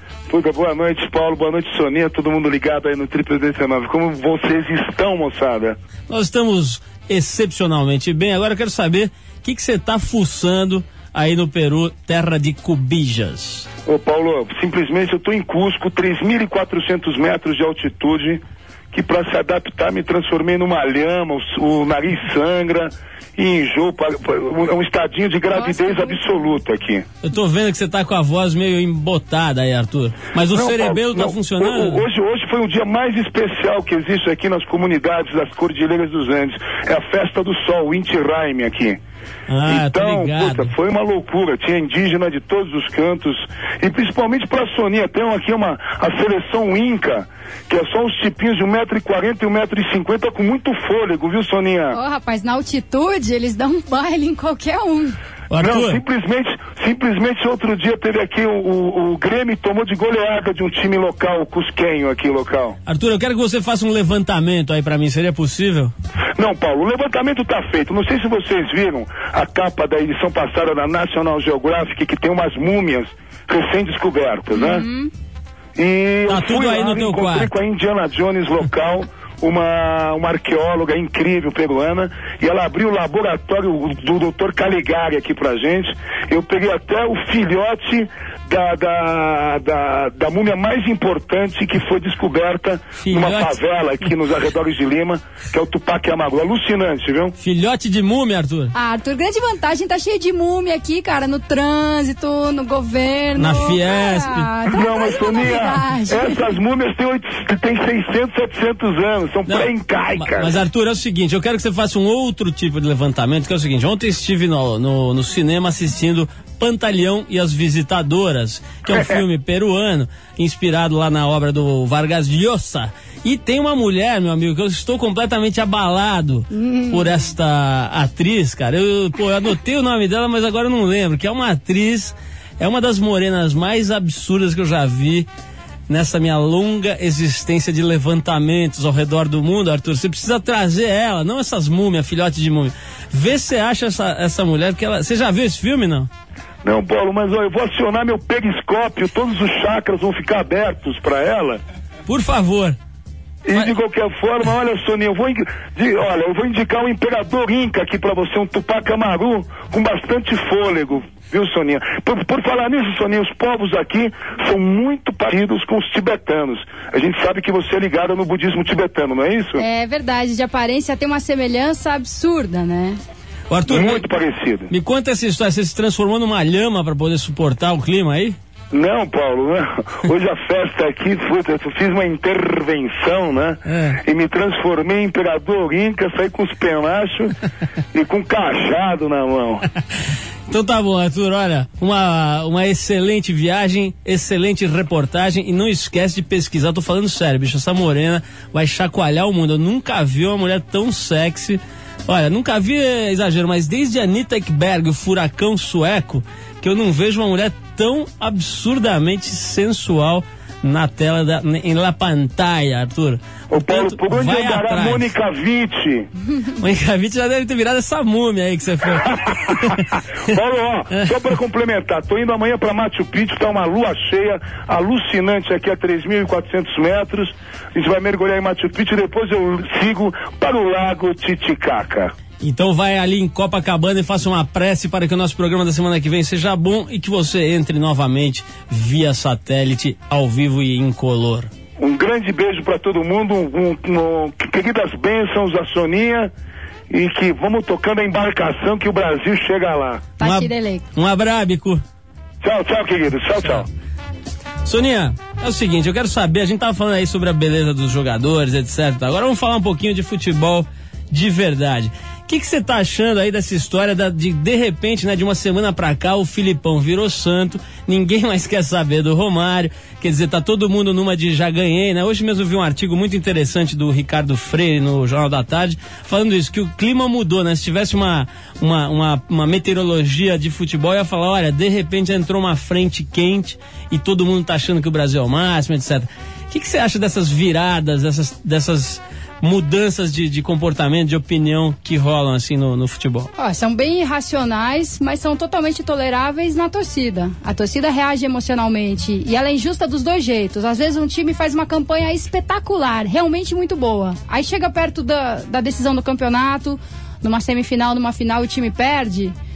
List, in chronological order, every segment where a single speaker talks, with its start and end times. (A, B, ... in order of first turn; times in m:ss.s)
0:00.3-0:05.8 A
0:06.1-0:13.7 B
0:13.8-0:27.0 A
0:25.5-0:26.2 C
0:27.2-0:32.0 B
0:30.5-0:39.0 A
0:39.5-0:40.7 B
0:39.7-0:52.0 A
0:51.9-0:55.2 C
0:55.5-0:56.0 B
0:55.6-1:02.8 A
1:02.8-1:05.9 B
1:06.4-1:14.8 A
1:14.5-1:15.1 C
1:15.8-1:37.3 A
1:16.3-1:17.5 B
1:33.0-1:33.6 B
1:37.4-1:38.7 B
1:38.7-1:46.4 C
1:43.4-1:44.5 B
1:44.7-1:50.6 A
1:49.5-2:15.3 B
2:06.5-2:07.1 C
2:15.9-2:26.1 B
2:26.6-2:31.6 A
2:32.1-2:32.8 B
2:33.4-2:49.6 A
2:49.6-2:53.0 C
2:53.5-2:54.0 B
2:53.7-2:54.7 A
2:54.7-2:58.4 B
2:58.7-3:07.3 A
3:03.7-3:04.0 B
3:07.9-3:09.6 A
3:10.5-3:35.1 B
3:33.5-3:36.1 A
3:36.6-3:39.8 B
3:40.3-3:52.1 A
3:52.4-4:01.5 B
4:01.8-4:06.3 A
4:06.9-4:10.0 A
4:10.2-4:10.8 C
4:10.2-4:11.8 B
4:12.4-4:13.7 A
4:14.6-4:53.3 B
4:53.4-5:09.3 C